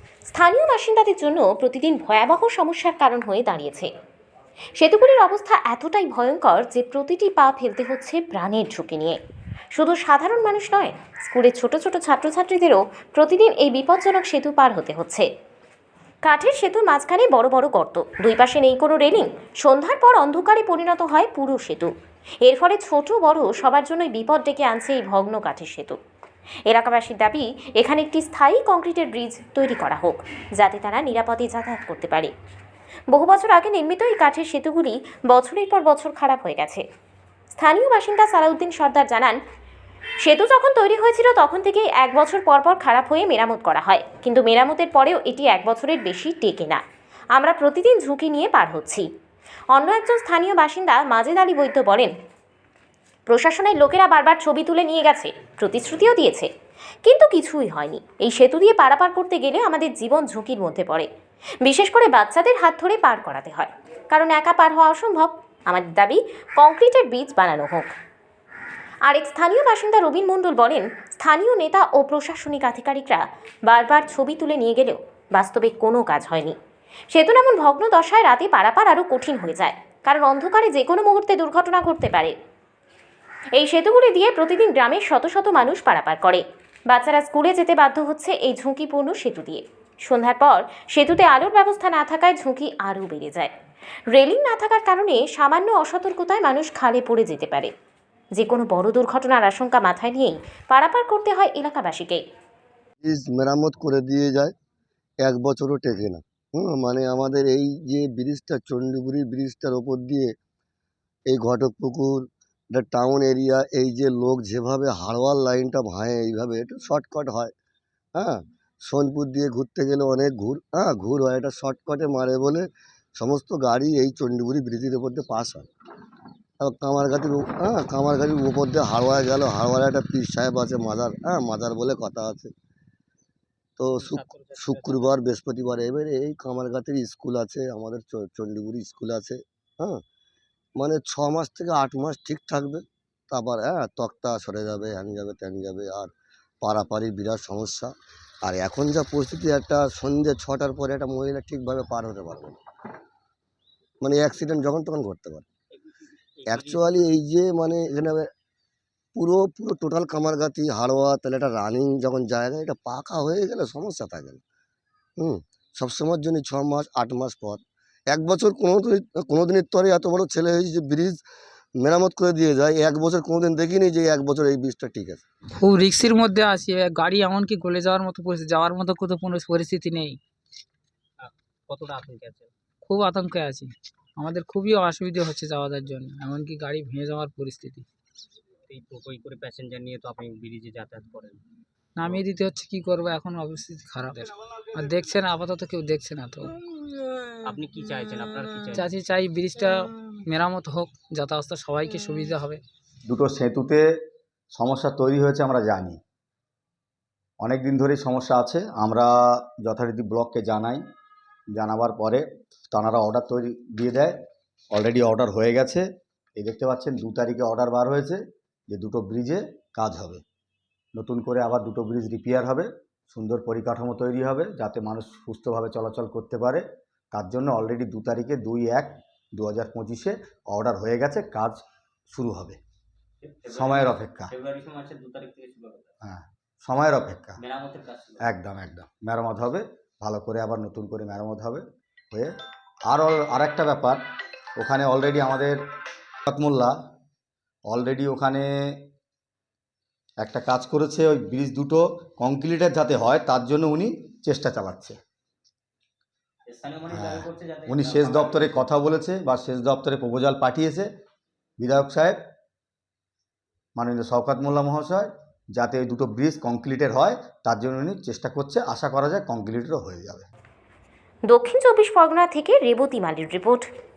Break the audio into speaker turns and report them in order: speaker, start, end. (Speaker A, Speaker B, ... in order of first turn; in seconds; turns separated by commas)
Speaker A: 0.3-3.9, Speaker A: 4.8-9.2, Speaker A: 9.7-15.3, Speaker A: 16.2-21.9, Speaker A: 22.4-26.0, Speaker A: 26.7-32.3, Speaker A: 33.1-36.8, Speaker A: 37.5-39.4, Speaker A: 40.2-46.8, Speaker A: 47.4-49.0, Speaker A: 49.7-52.1, Speaker A: 53.3-56.5, Speaker A: 57.0-61.1, Speaker A: 61.6-67.9, Speaker A: 69.1-76.5, Speaker A: 77.1-82.3, Speaker A: 83.5-93.5, Speaker A: 94.1-97.7, Speaker A: 98.4-102.2, Speaker B: 103.0-104.5, Speaker B: 105.2-110.3, Speaker B: 111.3-117.5, Speaker B: 118.1-125.7, Speaker B: 126.6-132.5, Speaker B: 133.8-140.0, Speaker C: 133.9-135.2, Speaker B: 140.8-147.9, Speaker B: 148.4-152.6, Speaker B: 154.0-155.4, Speaker C: 155.7-157.1, Speaker B: 156.5-158.3, Speaker B: 159.1-164.4, Speaker B: 165.2-171.2, Speaker B: 171.8-175.2, Speaker D: 175.5-180.2, Speaker C: 181.2-182.5, Speaker D: 182.8-187.8, Speaker C: 188.7-191.4, Speaker D: 192.0-196.6, Speaker C: 197.4-198.9, Speaker D: 198.7-202.6, Speaker E: 203.1-203.8, Speaker E: 204.5-206.0, Speaker E: 207.4-210.8, Speaker E: 211.5-214.2, Speaker E: 214.7-215.8, Speaker E: 216.4-220.2, Speaker E: 220.9-232.6, Speaker C: 233.2-235.9, Speaker E: 233.5-234.3, Speaker E: 236.0-237.4, Speaker C: 237.4-238.3, Speaker E: 238.2-242.3, Speaker E: 242.9-244.0, Speaker E: 244.6-245.6, Speaker E: 246.2-246.7, Speaker E: 247.7-248.8, Speaker E: 250.2-255.0, Speaker C: 256.5-258.6, Speaker E: 256.9-260.9, Speaker E: 261.6-262.2, Speaker E: 263.8-270.3, Speaker A: 271.3-273.7